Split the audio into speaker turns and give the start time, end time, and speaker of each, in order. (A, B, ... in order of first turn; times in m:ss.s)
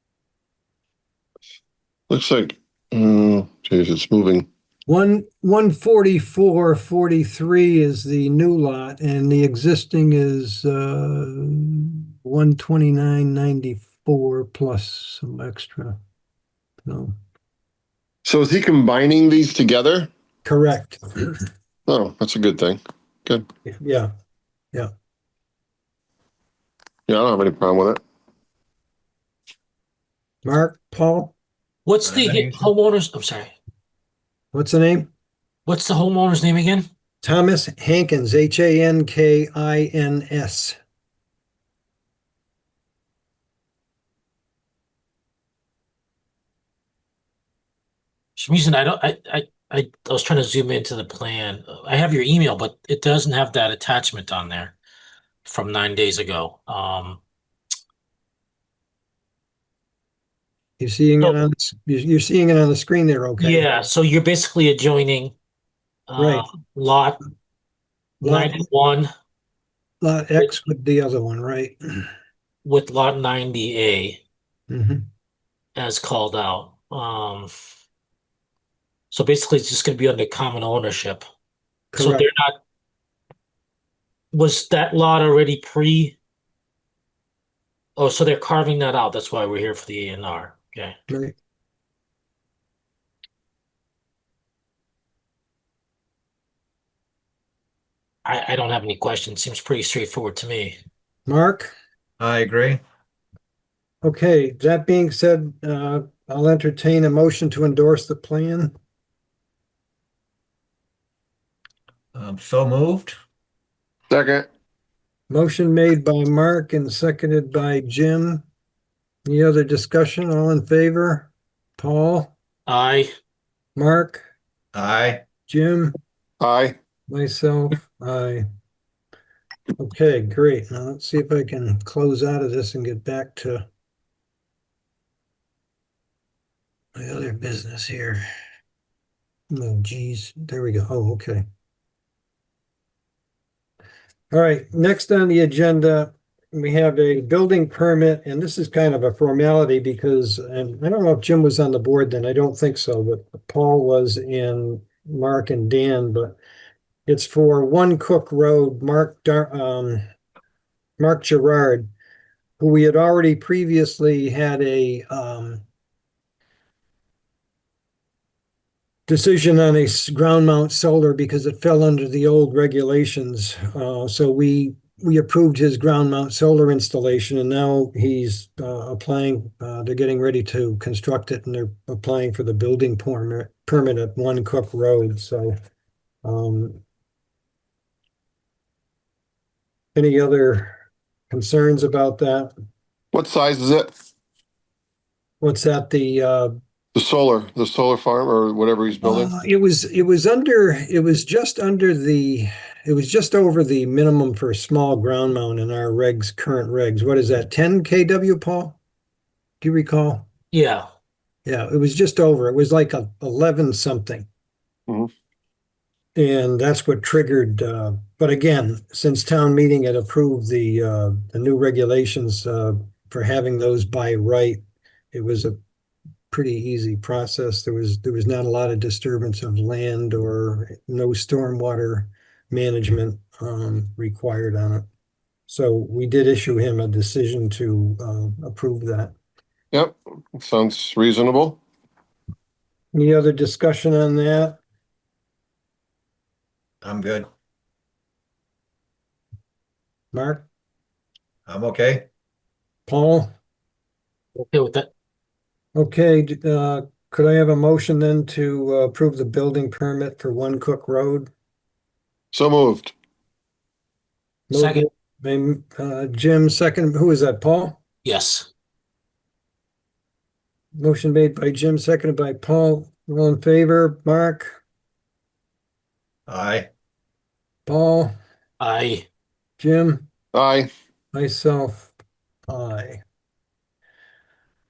0:02.1-0:04.5 A
0:04.9-0:16.0 B
0:16.8-0:17.1 B
0:18.2-0:20.1 A
0:20.4-0:21.4 B
0:21.9-0:23.4 A
0:23.7-0:24.1 B
0:27.1-0:28.0 A
0:30.4-0:31.3 B
0:31.9-0:33.5 C
0:32.0-0:32.7 D
0:34.5-0:35.1 B
0:35.7-0:36.9 C
0:37.2-0:40.8 B
0:48.4-0:54.8 C
0:55.4-0:57.2 C
1:00.8-1:03.7 B
1:03.4-1:05.3 C
1:06.1-1:07.2 C
1:06.2-1:06.4 B
1:08.2-1:08.6 B
1:08.2-1:09.1 C
1:10.0-1:12.1 B
1:12.6-1:14.2 C
1:14.7-1:15.0 B
1:15.8-1:17.5 C
1:19.1-1:21.2 C
1:21.9-1:22.3 B
1:22.0-1:22.6 C
1:24.3-1:26.2 C
1:28.0-1:31.0 C
1:31.1-1:31.4 B
1:38.2-1:40.8 C
1:41.3-1:41.7 B
1:42.2-1:42.8 D
1:44.0-1:48.7 B
1:52.2-1:53.2 D
1:54.1-1:54.5 A
1:55.3-1:58.4 B
1:59.2-2:02.3 B
2:02.7-2:03.1 C
2:03.8-2:04.2 B
2:04.8-2:05.2 D
2:05.5-2:06.0 B
2:06.4-2:06.8 A
2:07.1-2:08.4 B
2:09.8-2:13.6 B
2:17.0-2:18.2 B
2:19.5-2:21.4 B
2:24.3-2:36.4 B
2:37.1-2:40.0 B
2:41.0-2:41.9 B
2:42.6-2:45.6 B
2:49.1-3:05.6 B
3:06.2-3:06.8 B
3:10.0-3:10.8 B
3:11.3-3:12.5 B
3:13.1-3:13.9 A
3:15.4-3:16.6 B
3:16.9-3:19.3 A
3:19.0-3:28.8 B
3:29.6-3:30.3 B
3:30.5-3:30.9 C
3:31.5-3:34.3 B
3:36.2-3:44.6 B
3:45.1-3:45.6 B
3:46.3-3:54.8 B
3:55.5-3:59.1 B
3:59.7-4:01.6 A
4:02.9-4:04.6 B
4:06.8-4:07.3 D
4:10.1-4:10.5 B
4:11.5-4:12.1 D
4:12.9-4:13.3 B
4:14.4-4:14.9 C
4:15.8-4:21.3 B
4:22.3-4:22.9 A
4:24.5-4:27.8 B
4:24.5-4:24.9 C
4:28.0-4:28.5 C
4:30.8-4:34.5 B
4:36.3-4:36.7 D
4:37.7-4:38.1 B
4:38.6-4:39.0 C
4:39.6-4:40.1 B
4:40.3-4:40.7 A
4:41.1-4:41.9 B
4:42.5-4:43.0 B